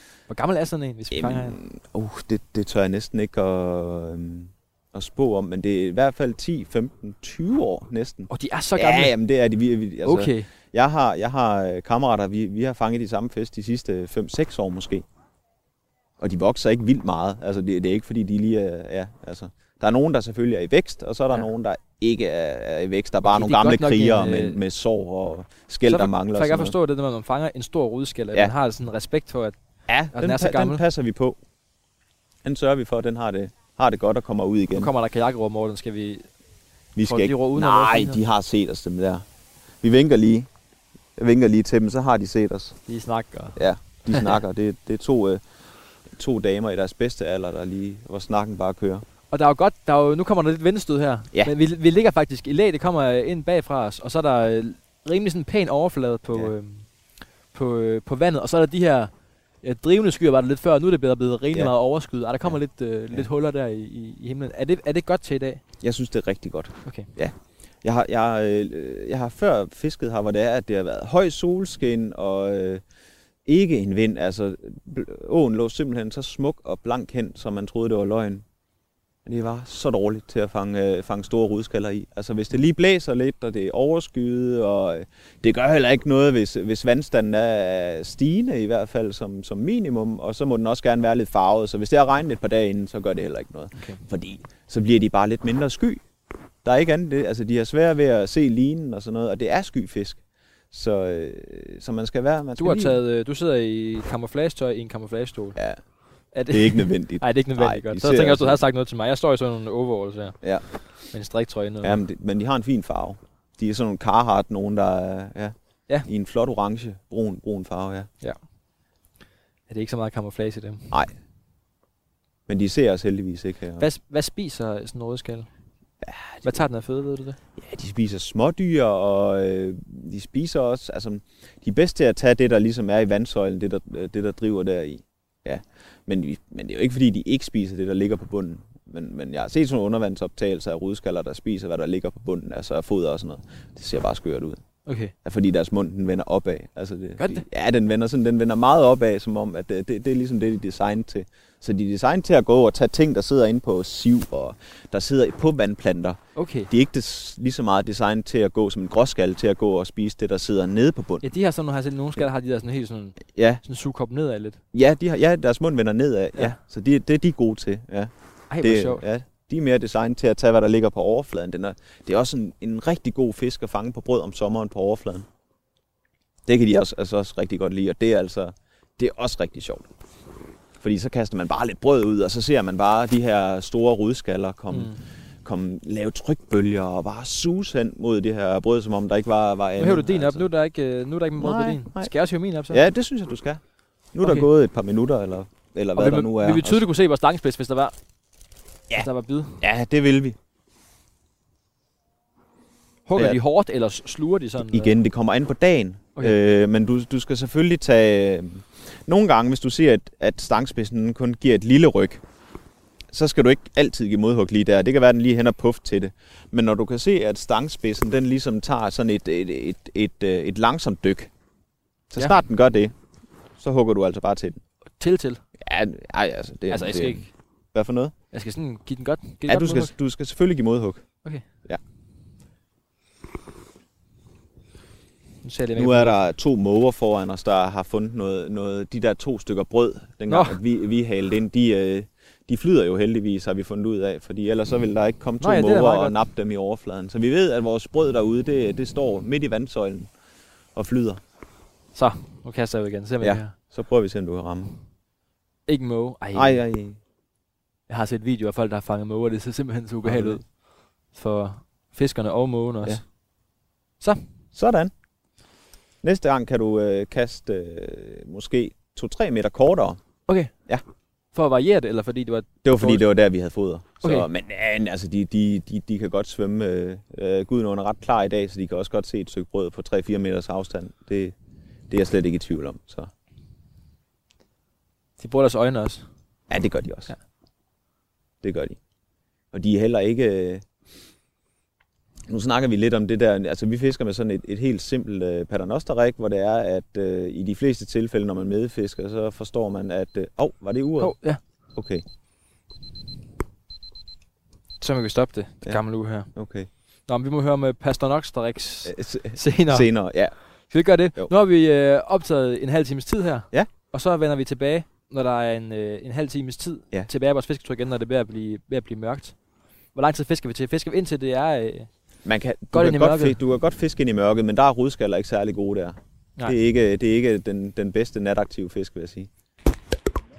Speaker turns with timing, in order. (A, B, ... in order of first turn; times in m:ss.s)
0:00.3-0:01.6 A
0:01.1-0:15.0 B
0:08.3-0:09.1 A
0:10.0-0:10.5 A
0:16.2-0:26.8 B
0:23.2-0:24.6 A
0:25.9-0:29.6 A
0:29.9-0:31.4 B
0:30.1-0:30.8 A
0:32.4-0:34.9 B
0:34.7-0:36.3 A
0:37.0-0:39.2 B
0:37.0-0:38.2 A
0:39.8-0:40.5 B
0:41.2-0:42.8 B
0:42.9-0:43.6 A
0:43.6-0:45.4 B
0:46.1-0:49.0 B
0:49.3-0:56.9 A
0:57.5-0:59.1 A
0:59.6-1:05.6 A
1:05.8-1:12.8 B
1:13.5-1:18.4 B
1:19.2-1:36.0 B
1:33.8-1:34.0 A
1:36.6-1:43.0 B
1:42.6-1:45.6 A
1:46.3-1:50.4 A
1:46.5-1:48.6 B
1:51.0-1:52.0 A
1:51.8-1:55.6 B
1:56.1-1:58.1 B
1:59.7-2:01.0 A
2:02.5-2:03.8 B
2:03.8-2:05.5 A
2:06.0-2:06.5 B
2:06.4-2:07.4 A
2:07.6-2:24.6 B
2:24.9-2:25.1 A
2:25.2-2:36.2 B
2:27.2-2:27.4 A
2:36.4-2:36.7 A
2:36.7-2:41.2 B
2:41.2-2:44.6 A
2:43.3-2:43.6 B
2:44.7-2:48.1 B
2:48.5-2:49.0 A
2:48.6-2:55.3 B
2:56.5-2:59.9 B
3:00.8-3:04.9 B
3:04.7-3:05.0 A
3:05.4-3:10.5 B
3:09.8-3:12.8 A
3:11.4-3:12.1 B
3:12.7-3:13.6 B
3:14.1-3:16.8 B
3:14.2-3:14.5 A
3:16.0-3:17.9 A
3:19.0-3:19.6 A
3:19.6-3:20.4 B
3:23.1-3:25.0 A
3:24.6-3:32.2 B
3:33.1-3:41.3 B
3:42.1-3:42.9 B
3:43.6-3:44.6 B
3:45.0-3:45.4 A
3:45.6-3:48.1 B
3:46.7-3:47.3 A
3:48.3-3:49.9 A
3:49.5-3:51.1 B
3:55.4-3:56.2 A
3:55.8-4:10.1 B
4:00.3-4:00.6 A
4:05.4-4:06.2 A
4:10.8-4:11.2 B
4:12.0-4:13.6 A
4:13.2-4:14.7 B
4:15.7-4:16.6 A
4:16.3-4:17.0 B
4:17.9-4:20.6 A
4:20.0-4:20.4 B
4:21.1-4:23.0 A
4:24.6-4:24.9 B
4:26.0-4:30.0 B
4:30.3-4:30.5 A
4:31.3-4:33.0 A
4:32.6-4:41.4 B
4:34.0-4:34.3 A
4:41.9-4:43.1 B
4:45.2-4:46.0 A
4:46.5-4:47.1 B
4:48.4-4:48.8 B
4:49.5-4:50.6 B
4:52.3-5:01.2 B
5:01.0-5:01.4 A
5:01.8-5:02.0 B
5:04.8-5:06.3 A
5:06.3-5:06.7 B
5:07.1-5:09.9 A
5:08.8-5:10.4 B
5:10.7-5:19.4 A
5:19.9-5:21.9 A
5:22.2-5:29.3 B
5:22.7-5:23.4 A